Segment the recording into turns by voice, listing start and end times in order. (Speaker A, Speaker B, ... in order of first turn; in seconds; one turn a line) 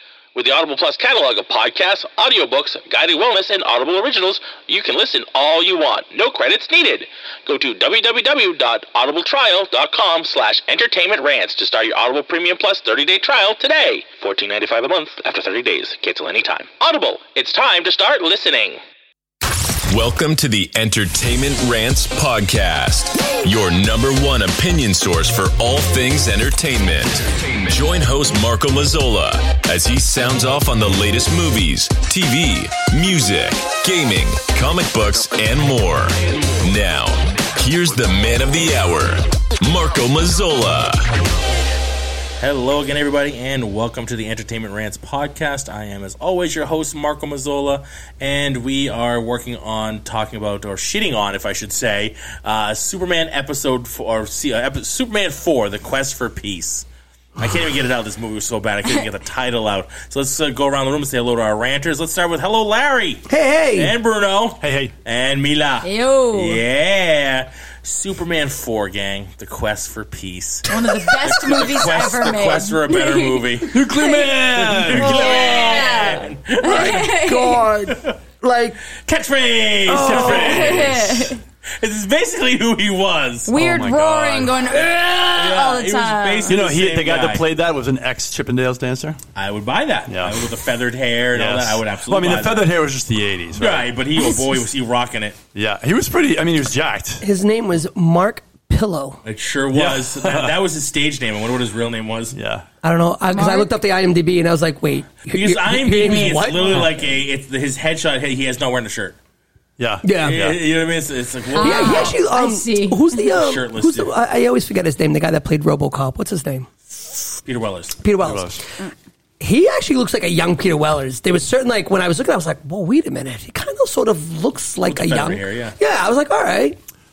Speaker A: 0.3-18.8
Speaker B: 19.9-41.2
Speaker C: 42.4-56.9
Speaker C: 57.4-73.8
Speaker D: 63.3-63.9
Speaker E: 64.6-64.9
Speaker F: 65.8-66.6
Speaker F: 70.7-74.3
Speaker E: 73.7-75.4
Speaker C: 74.5-77.1
Speaker D: 75.0-76.0
Speaker F: 75.0-77.7
Speaker D: 76.6-78.8
Speaker C: 77.9-78.2
Speaker C: 79.0-81.1
Speaker D: 79.9-80.6
Speaker E: 79.9-81.3
Speaker F: 80.2-81.4
Speaker C: 81.8-83.5
Speaker F: 83.5-86.6
Speaker E: 83.5-84.6
Speaker C: 85.3-87.4
Speaker E: 86.5-89.2
Speaker C: 89.4-92.7
Speaker E: 90.1-90.5
Speaker E: 91.3-93.9
Speaker C: 93.6-95.4
Speaker F: 94.2-94.6
Speaker E: 95.5-97.2
Speaker D: 97.2-99.2
Speaker C: 99.2-102.4
Speaker E: 99.7-100.6
Speaker E: 102.3-102.7
Speaker D: 102.8-106.9
Speaker F: 103.3-103.7
Speaker C: 105.3-109.2
Speaker E: 109.8-110.6
Speaker D: 110.0-110.4
Speaker C: 110.2-112.2
Speaker F: 111.5-113.2
Speaker D: 111.6-116.7
Speaker C: 113.3-114.1
Speaker C: 117.5-118.0
Speaker D: 118.0-118.6
Speaker E: 118.2-118.6
Speaker D: 119.4-126.8
Speaker C: 124.8-125.8